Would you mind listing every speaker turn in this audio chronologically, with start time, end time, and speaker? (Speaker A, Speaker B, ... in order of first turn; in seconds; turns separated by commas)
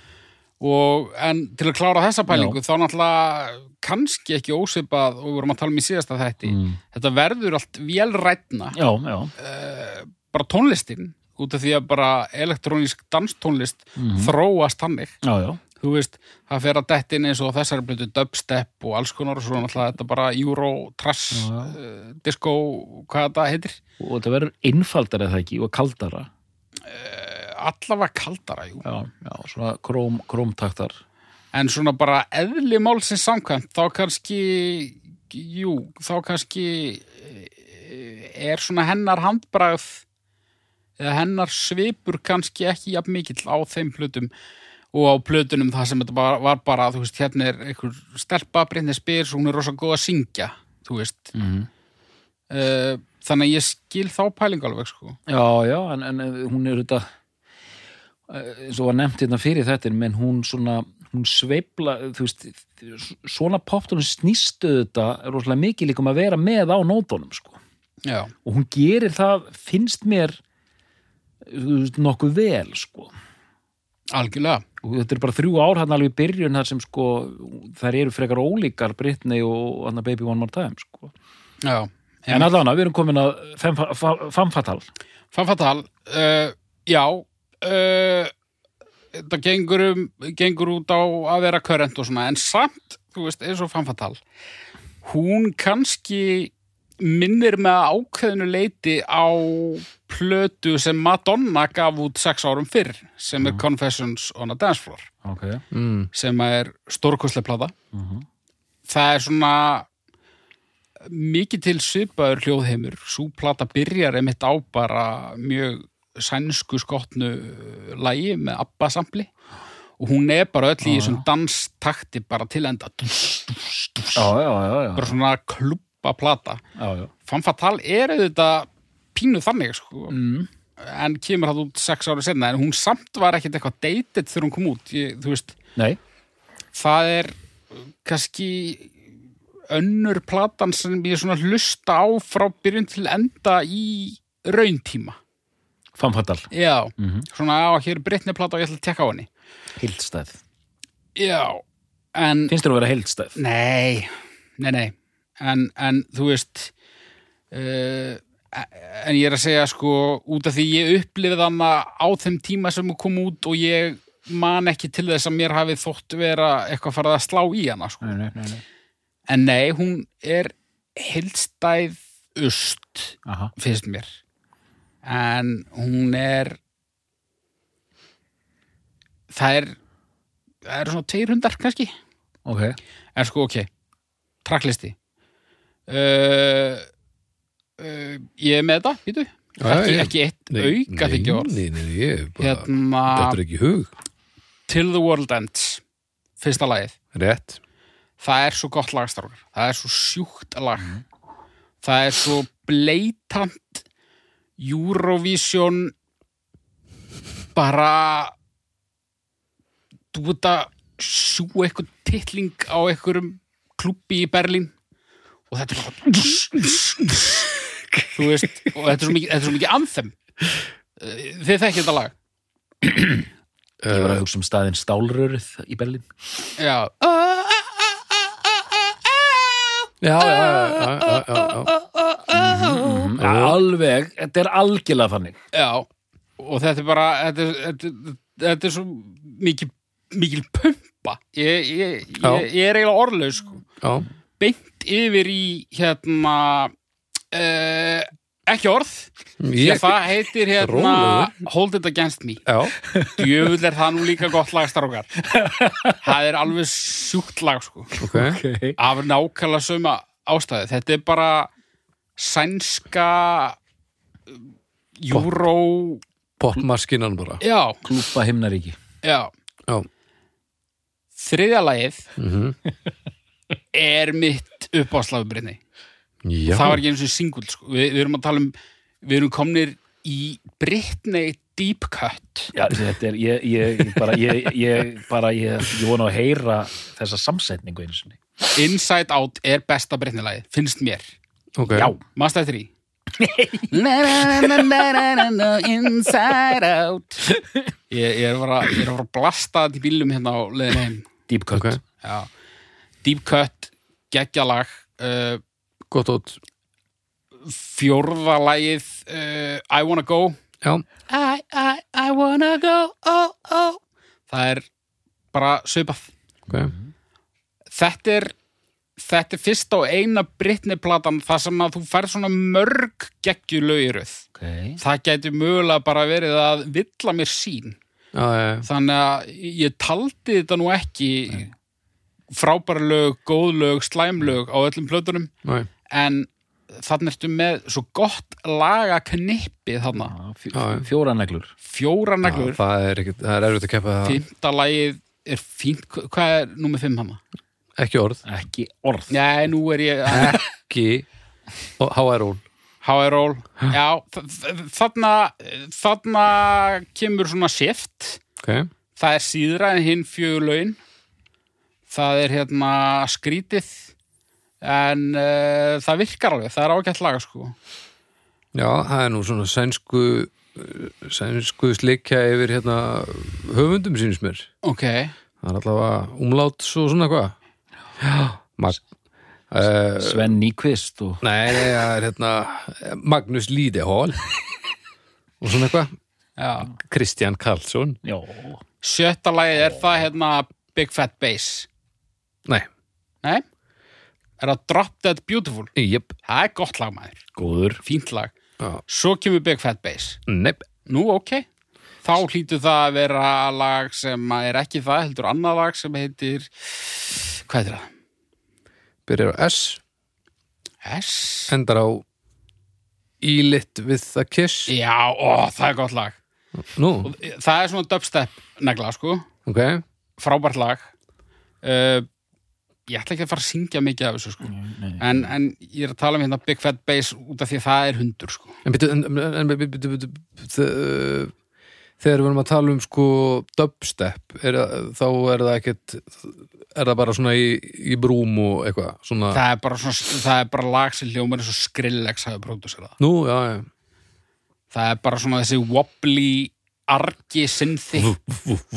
Speaker A: 0.6-8.8, Speaker B: 2.3-2.6, Speaker B: 6.5-6.8, Speaker B: 8.7-9.3, Speaker A: 9.4-15.2, Speaker B: 14.0-14.3, Speaker B: 15.2-15.6, Speaker A: 15.8-23.8, Speaker B: 21.3-21.8, Speaker B: 24.0-26.3, Speaker A: 26.9-28.8, Speaker B: 28.8-31.0, Speaker A: 31.5-40.0, Speaker A: 41.0-44.3, Speaker A: 44.9-51.3, Speaker B: 51.3-51.7, Speaker A: 52.5-55.2, Speaker B: 55.3-57.1, Speaker B: 58.3-67.6, Speaker A: 68.0-68.3, Speaker B: 68.5-70.4, Speaker B: 71.5-73.1, Speaker A: 74.1-74.6, Speaker B: 74.8-81.1, Speaker A: 81.6-82.5, Speaker B: 82.3-84.9, Speaker A: 85.3-88.3, Speaker A: 89.1-94.2, Speaker A: 95.0-105.1, Speaker B: 105.2-105.6, Speaker C: 105.7-106.1, Speaker A: 106.1-107.7, Speaker B: 107.9-108.3, Speaker A: 108.9-109.9, Speaker A: 111.0-119.3, Speaker A: 120.0-124.3, Speaker B: 120.8-121.2, Speaker B: 124.2-125.2, Speaker A: 125.0-126.6, Speaker B: 126.8-127.1, Speaker A: 127.3-130.2, Speaker B: 130.1-130.5, Speaker A: 130.8-135.6, Speaker A: 136.8-137.4, Speaker A: 138.0-138.9, Speaker A: 139.7-145.2, Speaker B: 146.0-147.3, Speaker A: 146.5-149.3, Speaker B: 149.8-150.4, Speaker A: 151.2-151.6, Speaker A: 152.2-152.6, Speaker B: 152.5-153.4, Speaker A: 153.4-156.7, Speaker A: 157.5-168.2, Speaker B: 168.0-168.6, Speaker A: 169.3-174.2, Speaker B: 173.3-173.5, Speaker A: 175.0-176.6, Speaker A: 179.3-179.8, Speaker A: 180.7-181.9, Speaker B: 182.5-182.8, Speaker A: 183.2-183.7, Speaker A: 184.4-184.9, Speaker A: 185.9-186.9, Speaker A: 187.8-191.6, Speaker C: 189.6-193.9, Speaker A: 192.4-193.4, Speaker A: 194.7-195.8, Speaker A: 196.4-196.9, Speaker C: 197.1-197.6, Speaker A: 198.2-200.9, Speaker A: 201.8-203.8, Speaker A: 204.6-205.9, Speaker A: 207.6-208.3, Speaker A: 210.1-214.7, Speaker A: 215.5-217.5, Speaker A: 218.1-220.1, Speaker A: 221.0-222.1, Speaker B: 222.8-223.3, Speaker C: 223.8-224.2, Speaker B: 223.9-226.1, Speaker A: 226.6-227.5, Speaker C: 230.0-231.7, Speaker B: 232.3-235.4, Speaker C: 232.4-233.6, Speaker A: 235.5-235.9, Speaker A: 236.4-243.6, Speaker C: 242.2-242.5, Speaker C: 243.8-244.1, Speaker A: 244.4-246.7, Speaker A: 247.3-252.4, Speaker C: 249.4-250.0, Speaker C: 250.6-251.3, Speaker C: 252.5-252.8, Speaker B: 252.8-253.3, Speaker A: 253.1-255.1, Speaker B: 255.2-256.0, Speaker A: 256.0-257.9, Speaker B: 258.0-258.8, Speaker C: 258.0-258.4, Speaker A: 258.8-261.5, Speaker A: 262.2-263.6, Speaker A: 265.0-266.0, Speaker C: 266.4-267.4, Speaker A: 267.4-267.8, Speaker B: 267.8-268.8, Speaker A: 269.0-269.3, Speaker A: 271.2-272.1, Speaker C: 272.2-272.6, Speaker A: 273.7-275.6, Speaker C: 276.2-276.8, Speaker A: 276.5-282.5, Speaker B: 282.5-288.2, Speaker A: 288.5-291.1, Speaker C: 291.6-291.9, Speaker B: 291.7-292.0, Speaker A: 292.0-292.7, Speaker B: 293.2-295.1, Speaker A: 293.7-297.2, Speaker A: 297.9-301.1, Speaker B: 301.3-301.8, Speaker C: 301.5-301.8, Speaker A: 302.0-302.3, Speaker A: 303.0-305.4, Speaker C: 305.9-306.4, Speaker A: 307.4-310.4, Speaker A: 311.1-314.7, Speaker A: 315.3-316.1, Speaker B: 316.5-316.9, Speaker A: 317.7-318.3, Speaker A: 319.0-324.3, Speaker B: 324.4-324.8, Speaker A: 324.8-327.8, Speaker C: 328.1-328.7, Speaker A: 328.6-331.5, Speaker A: 332.3-335.3, Speaker A: 335.9-340.1, Speaker B: 340.0-341.5, Speaker C: 340.5-340.9, Speaker A: 341.6-342.6, Speaker C: 342.2-344.2, Speaker A: 344.1-347.2, Speaker C: 347.8-348.2, Speaker B: 348.2-349.2, Speaker A: 349.1-350.4, Speaker C: 350.1-351.1, Speaker C: 351.8-352.4, Speaker A: 352.8-358.2, Speaker C: 358.4-358.7, Speaker A: 359.0-360.8, Speaker A: 361.9-363.9, Speaker A: 364.6-367.6, Speaker C: 368.6-374.5, Speaker A: 374.6-375.1, Speaker C: 375.4-377.4, Speaker C: 378.0-378.8, Speaker C: 379.5-380.3, Speaker B: 380.0-381.2, Speaker C: 381.2-384.3, Speaker C: 385.4-385.9, Speaker A: 386.4-386.7, Speaker C: 386.8-388.0, Speaker B: 388.0-388.6, Speaker A: 388.8-391.7, Speaker A: 394.4-395.7, Speaker C: 395.8-396.1, Speaker A: 396.3-397.2, Speaker B: 397.4-397.8, Speaker A: 397.8-398.3, Speaker A: 398.9-400.2, Speaker C: 400.3-400.7, Speaker A: 400.9-401.5, Speaker A: 402.0-407.9, Speaker C: 409.1-409.8, Speaker A: 410.8-411.5, Speaker C: 411.5-412.1, Speaker C: 413.2-414.7, Speaker A: 414.7-416.2, Speaker C: 416.6-417.1, Speaker A: 417.0-419.3, Speaker C: 419.5-419.8, Speaker A: 420.2-420.9, Speaker A: 421.6-422.1, Speaker A: 422.9-428.6, Speaker B: 424.5-425.3, Speaker C: 428.6-431.3, Speaker C: 432.0-439.4, Speaker A: 439.3-443.0, Speaker C: 443.0-443.7, Speaker A: 444.7-448.2